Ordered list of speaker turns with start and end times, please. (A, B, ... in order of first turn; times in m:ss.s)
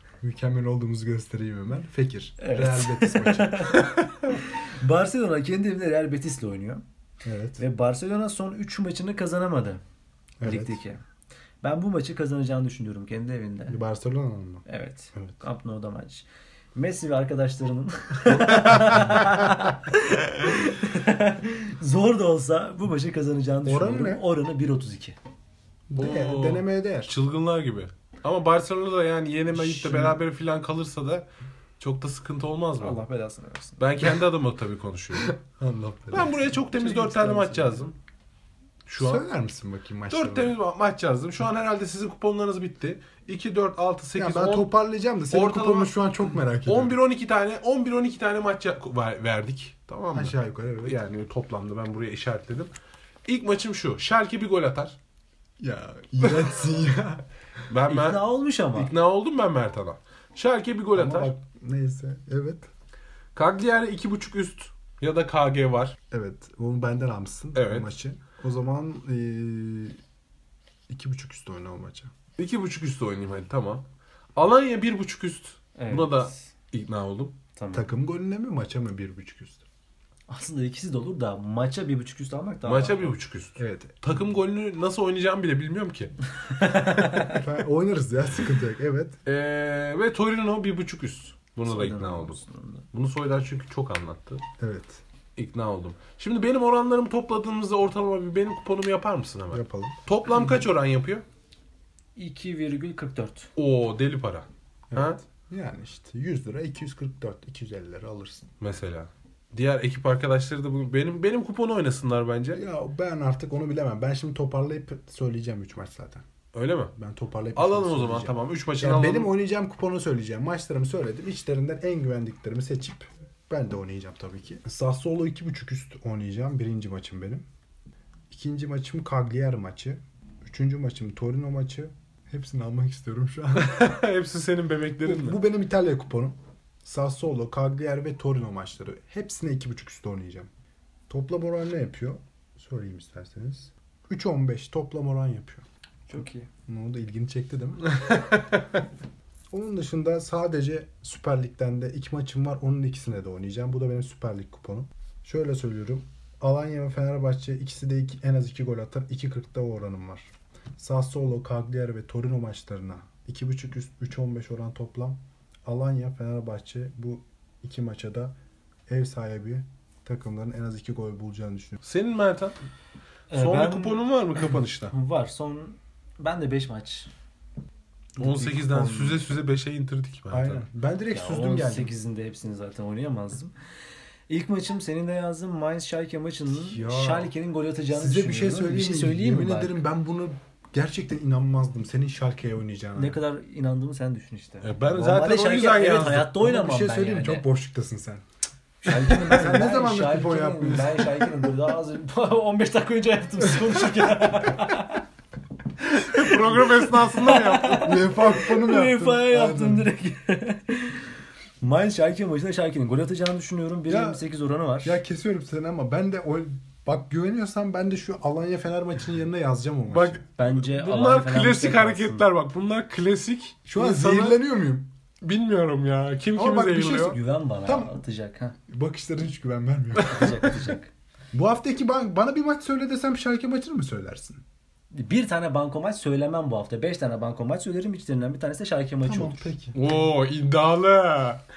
0:00.2-0:03.9 A
0:02.4-0:06.8 B
0:07.2-0:07.6 A
0:07.6-0:09.8 B
0:10.4-0:10.8 A
0:10.4-0:11.0 B
0:11.6-0:13.8 B
0:13.7-0:15.4 A
0:14.7-0:25.2 B
0:18.6-0:19.1 C
0:18.6-0:19.3 A
0:23.6-0:24.2 A
0:25.9-0:27.1 A
0:26.0-0:31.3 C
0:29.5-0:30.2 A
0:31.8-0:33.0 C
0:32.8-0:33.8 B
0:33.8-0:35.4 C
0:35.2-0:36.4 A
0:36.1-0:38.0 C
0:36.4-0:37.9 B
0:38.9-0:39.3 C
0:39.0-0:40.6 A
0:40.1-0:44.7 C
0:44.2-0:47.0 A
0:45.3-0:46.0 C
0:46.6-0:52.7 C
0:50.1-0:51.0 A
0:53.2-0:55.0 C
0:55.6-0:57.2 A
0:57.7-1:01.3 C
0:57.9-0:58.9 B
1:00.9-1:02.7 A
1:03.4-1:06.0 C
1:06.1-1:10.0 A
1:07.5-1:07.9 C
1:10.9-1:12.1 A
1:12.4-1:13.8 C
1:14.4-1:17.4 C
1:15.8-1:16.5 B
1:17.6-1:17.9 B
1:17.7-1:19.6 A
1:20.3-1:23.2 B
1:22.6-1:26.1 C
1:23.6-1:24.0 A
1:26.6-1:27.4 B
1:27.3-1:29.2 A
1:29.3-1:32.4 C
1:31.7-1:32.8 B
1:32.9-1:34.4 C
1:34.6-1:35.0 A
1:35.4-1:41.2 C
1:39.5-1:40.0 A
1:42.2-1:43.5 B
1:43.6-1:45.2 C
1:44.9-1:48.5 A
1:48.6-1:52.6 C
1:52.6-1:56.2 A
1:56.5-1:56.9 C
1:57.0-2:07.5 A
1:57.6-1:59.3 C
2:08.3-2:14.0 A
2:13.6-2:15.4 C
2:15.0-2:20.5 A
2:21.1-2:25.6 A
2:26.1-2:26.5 B
2:26.7-2:28.4 A
2:29.5-2:48.3 A
2:48.9-2:51.8 A
2:51.8-2:52.6 C
2:53.3-2:57.1 B
2:53.3-2:54.9 C
2:58.2-2:59.2 B
2:58.2-3:00.7 C
3:00.3-3:01.9 A
3:01.1-3:03.5 B
3:04.3-3:09.8 B
3:06.5-3:07.3 A
3:07.9-3:13.2 A
3:13.0-3:17.4 B
3:14.6-3:16.3 C
3:16.2-3:18.2 A
3:18.8-3:25.0 B
3:19.0-3:21.4 A
3:25.9-3:28.0 C
3:26.3-3:31.1 B
3:27.8-3:29.9 A
3:31.6-3:35.0 B
3:33.9-3:34.2 A
3:34.8-3:40.2 A
3:39.9-3:44.4 C
3:40.4-3:42.3 B
3:43.7-3:44.9 A
3:45.2-3:47.2 C
3:46.4-3:48.0 A
3:46.8-3:48.6 B
3:48.7-3:50.6 A
3:50.0-3:50.9 B
3:51.3-3:54.4 A
3:54.9-3:59.5 B
3:59.0-3:59.9 A
3:59.7-4:01.4 C